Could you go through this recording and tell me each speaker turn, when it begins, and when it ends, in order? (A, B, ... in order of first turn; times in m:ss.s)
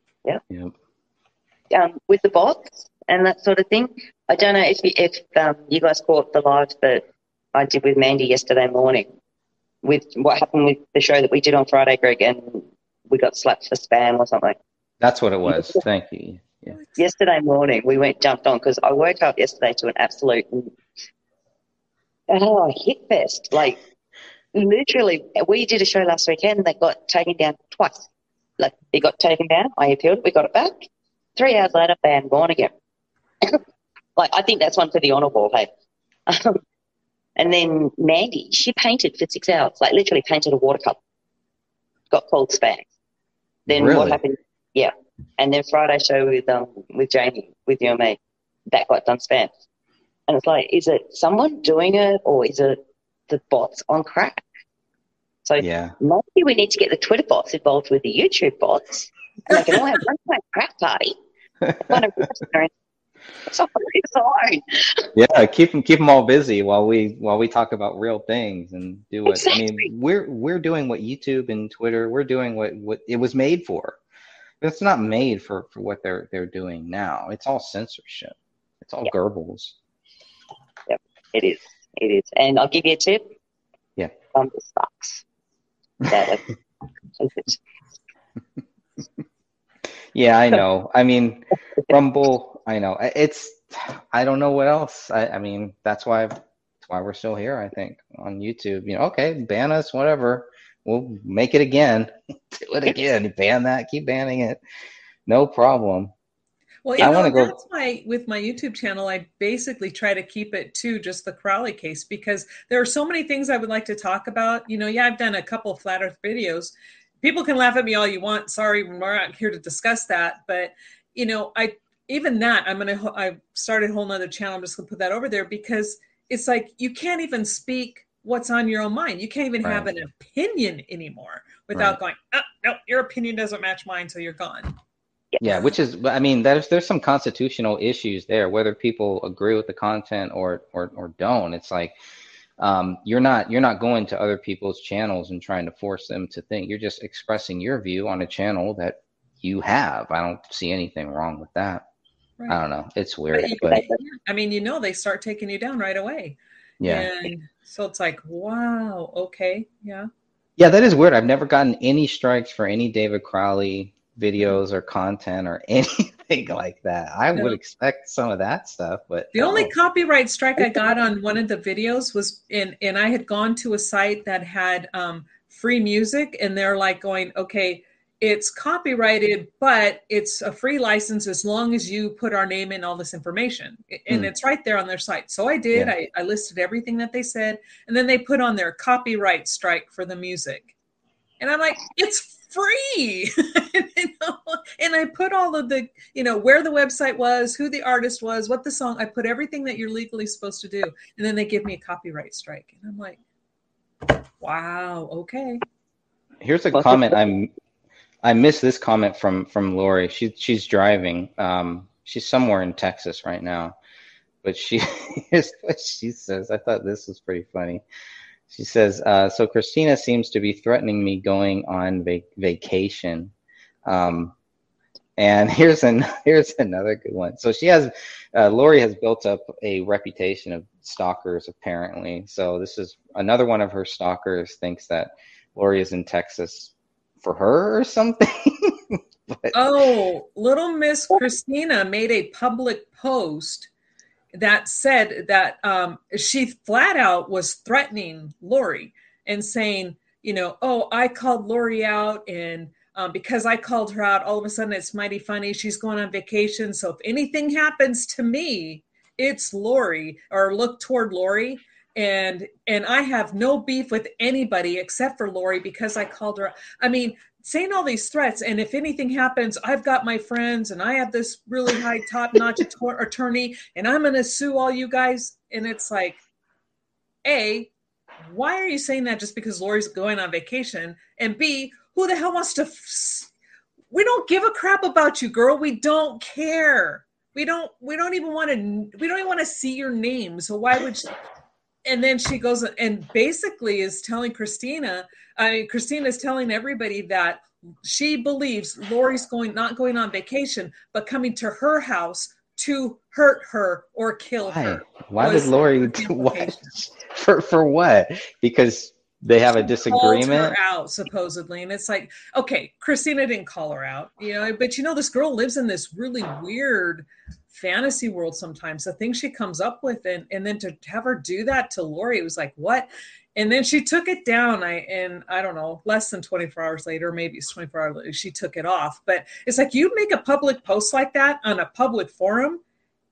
0:00.5-0:00.7 A
0:01.7-0:09.1 B
0:09.8-0:14.6 B
0:15.0-0:16.8 A
0:15.5-0:15.8 B
0:17.0-0:20.8 B
0:22.3-0:23.8 B
0:24.5-0:28.1 B
0:28.6-0:32.7 B
0:34.2-0:35.7 B
0:36.3-0:36.6 B
0:37.4-0:41.0 B
0:42.1-0:42.9 B
0:43.7-0:44.2 A
0:43.7-0:48.2 B
0:48.7-0:49.5 B
0:50.3-0:54.4 B
0:55.4-1:01.2 B
0:55.6-0:55.9 A
1:01.6-1:02.1 A
1:01.8-1:02.7 B
1:03.5-1:05.1 B
1:05.2-1:14.0 A
1:09.3-1:09.9 B
1:14.6-1:19.8 A
1:20.9-1:23.3 B
1:24.3-1:25.2 B
1:26.1-1:26.5 B
1:27.2-1:27.6 B
1:30.1-1:44.6 A
1:45.3-1:46.1 A
1:46.8-2:14.7 C
1:47.0-1:47.6 A
2:09.6-2:09.9 A
2:15.4-2:21.9 A
2:22.6-2:31.8 A
2:32.5-2:33.8 A
2:33.4-2:40.1 C
2:36.8-2:37.1 A
2:40.6-2:49.7 A
2:47.3-2:47.6 C
2:49.3-3:10.7 C
3:11.4-3:23.2 C
3:24.4-3:25.6 C
3:26.4-3:27.5 A
3:28.2-3:33.8 A
3:34.4-3:37.8 A
3:38.5-3:43.3 A
3:43.9-3:44.3 A
3:45.2-3:59.6 A
3:59.5-4:03.7 C
4:04.3-4:36.2 C
4:37.2-4:37.7 C
4:38.2-4:43.3 C
4:43.9-4:51.1 C
4:51.8-5:06.8 C
5:04.4-5:10.6 A
5:09.6-5:32.6 C